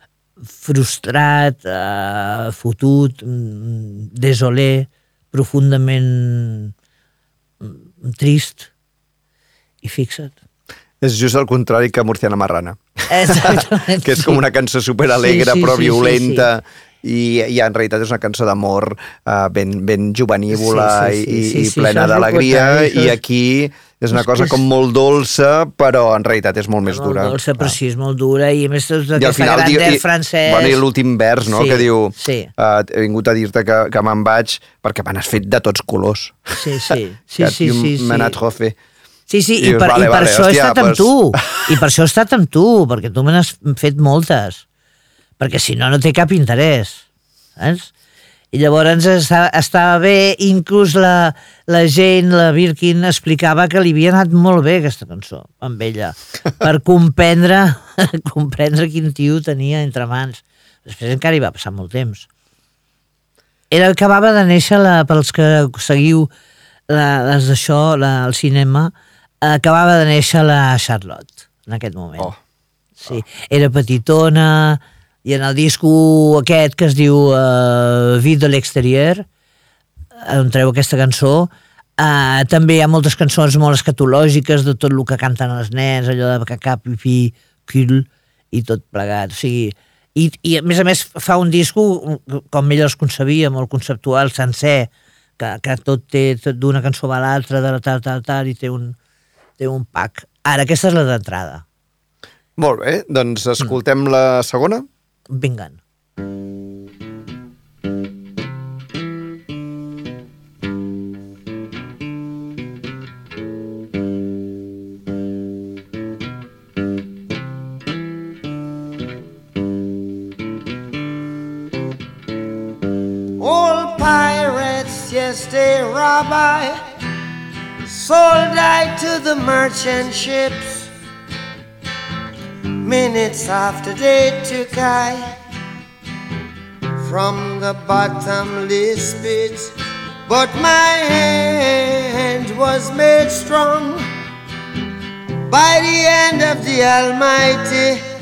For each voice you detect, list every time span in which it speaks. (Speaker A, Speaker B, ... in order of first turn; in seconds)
Speaker A: 0.5-6.7, 7.6-8.7, 9.8-10.3, 13.1-14.4, 15.1-16.5, 20.5-23.2, 24.1-24.6, 26.9-30.8, 31.5-32.5, 36.6-38.4, 39.3-44.6, 45.4-47.0, 47.6-47.9, 48.5-62.3, 63.7-66.3, 66.9-72.3, 73.0-79.2, 80.2-99.0, 99.6-101.6, 105.3-105.8
Speaker B: 11.0-27.8, 29.1-38.8, 39.6-41.8, 102.6-104.8
Speaker C: 123.4-126.8, 127.8-130.9, 132.8-135.3, 137.0-139.7, 140.3-144.0, 145.5-148.0